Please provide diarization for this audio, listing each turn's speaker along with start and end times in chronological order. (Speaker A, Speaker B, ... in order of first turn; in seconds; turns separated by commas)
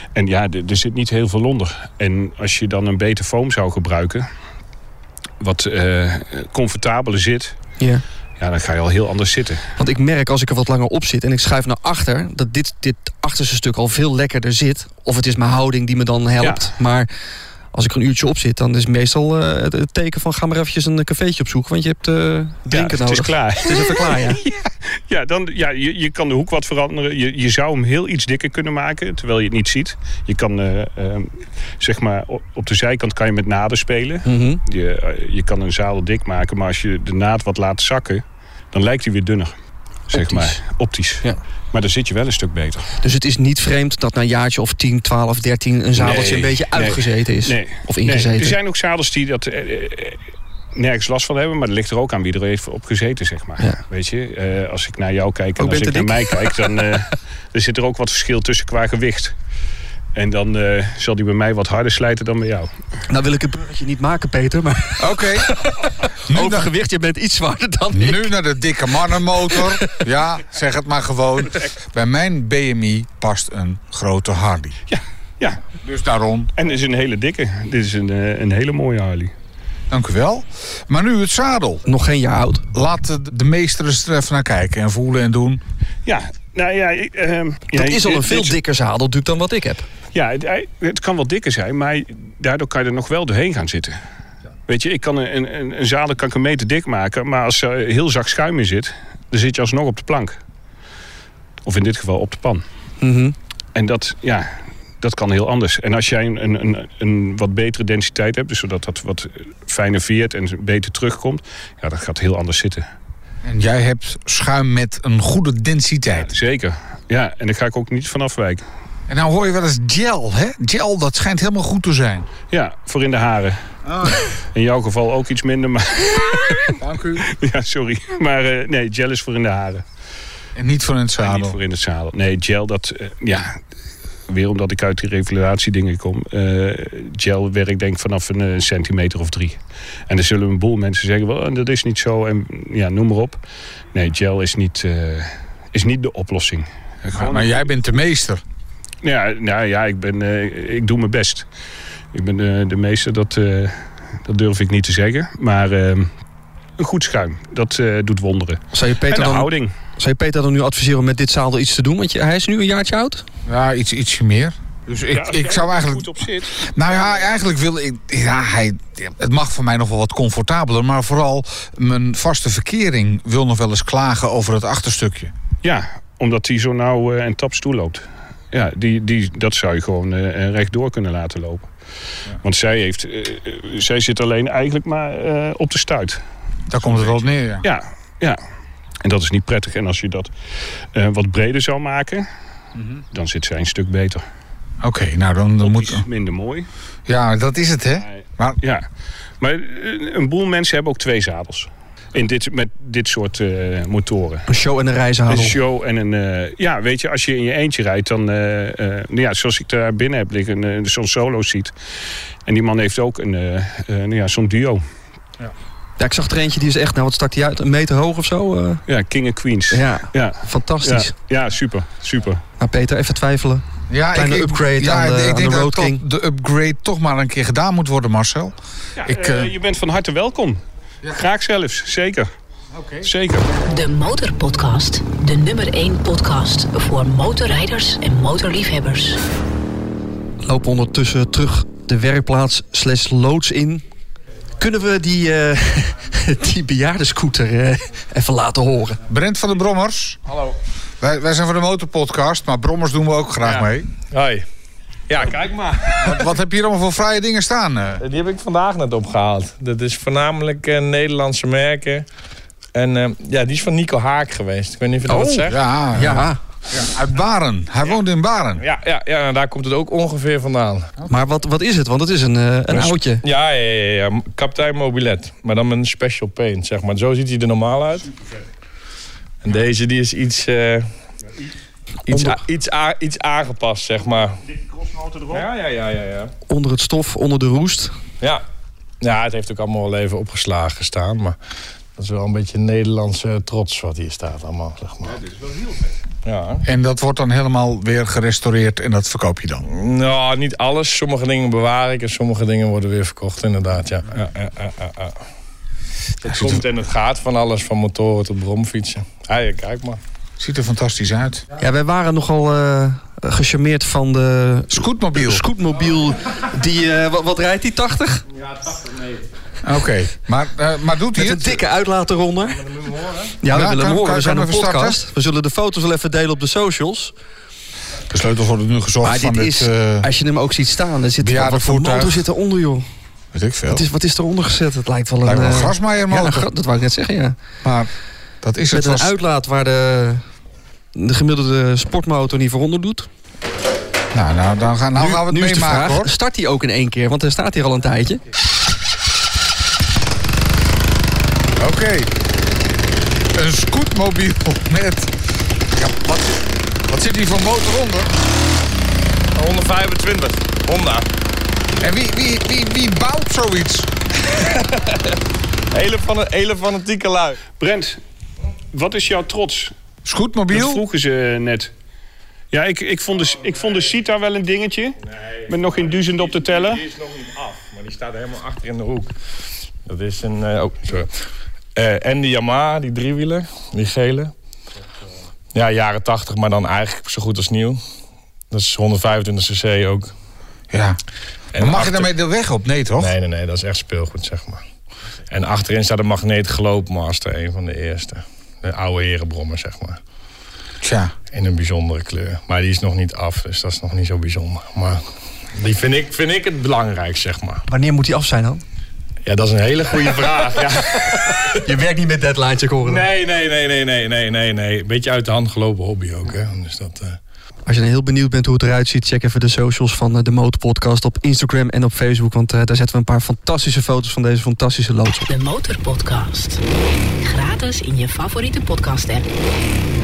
Speaker A: 0.1-4.3, Speaker A: 5.4-7.6, Speaker A: 8.4-9.7, Speaker B: 9.8-17.1, Speaker A: 16.4-16.7, Speaker B: 17.7-24.4, Speaker A: 22.7-39.5, Speaker B: 34.2-34.6, Speaker A: 40.1-42.9, Speaker B: 40.1-40.6, Speaker B: 43.0-48.5, Speaker A: 46.0-50.2, Speaker A: 50.8-59.4, Speaker B: 55.6-56.9, Speaker A: 60.1-62.7, Speaker B: 63.1-68.3, Speaker C: 65.0-65.7, Speaker C: 66.3-66.7, Speaker C: 67.9-74.8, Speaker B: 69.5-69.8, Speaker A: 74.9-75.6, Speaker C: 75.8-76.5, Speaker A: 76.6-79.3, Speaker C: 79.9-81.8, Speaker B: 81.9-82.7, Speaker C: 82.7-85.6, Speaker A: 86.1-88.5, Speaker B: 87.7-89.9, Speaker A: 90.1-94.0, Speaker A: 94.7-100.4, Speaker A: 101.7-102.6, Speaker B: 103.0-103.3, Speaker A: 103.8-112.9, Speaker C: 113.4-116.3, Speaker A: 116.1-118.6, Speaker C: 119.1-122.3, Speaker A: 122.5-129.8, Speaker C: 123.8-124.2, Speaker C: 126.8-127.3, Speaker C: 130.6-131.6, Speaker A: 131.2-133.6, Speaker A: 134.3-143.4, Speaker A: 143.9-147.6, Speaker C: 147.1-148.4, Speaker A: 149.0-151.5, Speaker A: 152.1-156.1, Speaker A: 156.8-159.7, Speaker B: 158.7-163.2, Speaker C: 163.5-175.3, Speaker A: 165.1-167.3, Speaker A: 175.6-181.7, Speaker A: 182.4-186.2, Speaker C: 186.7-187.7, Speaker A: 186.8-188.4, Speaker A: 189.0-190.3, Speaker A: 190.9-192.3, Speaker C: 192.8-193.0, Speaker A: 193.1-194.2, Speaker C: 194.8-196.0, Speaker A: 195.6-196.7, Speaker C: 197.1-198.6, Speaker A: 199.4-204.5, Speaker B: 204.5-205.6, Speaker A: 205.3-211.7, Speaker A: 212.5-214.8, Speaker B: 216.0-218.8, Speaker A: 218.9-222.4, Speaker B: 219.7-221.1, Speaker B: 222.6-226.0, Speaker C: 223.9-229.5, Speaker A: 229.0-232.3, Speaker C: 232.7-233.1, Speaker A: 233.0-233.5, Speaker D: 233.7-239.2, Speaker B: 240.4-243.8, Speaker B: 244.6-249.0, Speaker C: 249.1-250.2, Speaker C: 251.0-253.9, Speaker E: 254.1-254.5, Speaker E: 255.1-256.2, Speaker C: 256.0-258.0, Speaker E: 258.0-262.1, Speaker E: 262.8-265.6, Speaker B: 265.1-266.4, Speaker C: 265.5-268.6, Speaker E: 268.6-270.9, Speaker B: 271.1-273.2, Speaker E: 272.7-278.1, Speaker E: 279.4-280.9, Speaker E: 282.1-284.4, Speaker B: 282.1-282.4, Speaker A: 284.4-285.5, Speaker E: 285.3-286.3, Speaker B: 286.5-288.0, Speaker E: 289.0-291.4, Speaker E: 292.0-295.2, Speaker A: 295.1-295.9, Speaker E: 296.2-296.7, Speaker C: 296.6-299.7, Speaker E: 299.7-305.2, Speaker E: 306.2-310.0, Speaker C: 306.2-306.6, Speaker C: 310.4-311.4, Speaker B: 311.6-318.3, Speaker C: 314.7-315.4, Speaker E: 318.3-319.3, Speaker C: 319.6-321.6, Speaker B: 321.1-322.7, Speaker E: 322.6-323.4, Speaker B: 323.4-327.1, Speaker C: 323.5-325.0, Speaker C: 328.1-330.1, Speaker B: 329.0-332.9, Speaker C: 331.2-332.2, Speaker C: 333.3-333.9, Speaker B: 333.7-337.4, Speaker C: 335.2-336.5, Speaker C: 337.6-337.9, Speaker C: 338.4-339.1, Speaker B: 338.7-340.2, Speaker B: 340.9-343.1, Speaker C: 344.1-346.1, Speaker B: 345.0-348.2, Speaker C: 351.6-352.1, Speaker C: 353.3-355.2, Speaker C: 355.7-358.1, Speaker E: 359.4-361.1, Speaker C: 361.8-363.9, Speaker E: 364.4-365.1, Speaker E: 365.7-367.4, Speaker A: 367.6-368.0, Speaker A: 368.7-369.7, Speaker C: 370.1-370.8, Speaker A: 370.5-371.7, Speaker A: 372.5-376.8, Speaker E: 373.3-373.9, Speaker E: 375.1-379.1, Speaker E: 379.9-381.1, Speaker E: 381.8-384.3, Speaker E: 385.5-387.8, Speaker E: 388.5-390.1, Speaker C: 390.7-391.0, Speaker E: 391.5-392.1, Speaker C: 391.6-393.1, Speaker E: 393.0-394.6, Speaker E: 395.3-400.0, Speaker C: 400.8-401.1, Speaker E: 401.3-405.0, Speaker E: 405.5-407.6, Speaker B: 407.7-408.6, Speaker E: 409.2-411.6, Speaker B: 411.1-413.1, Speaker E: 412.8-417.2, Speaker B: 417.7-425.3, Speaker D: 425.3-426.6, Speaker D: 427.2-429.3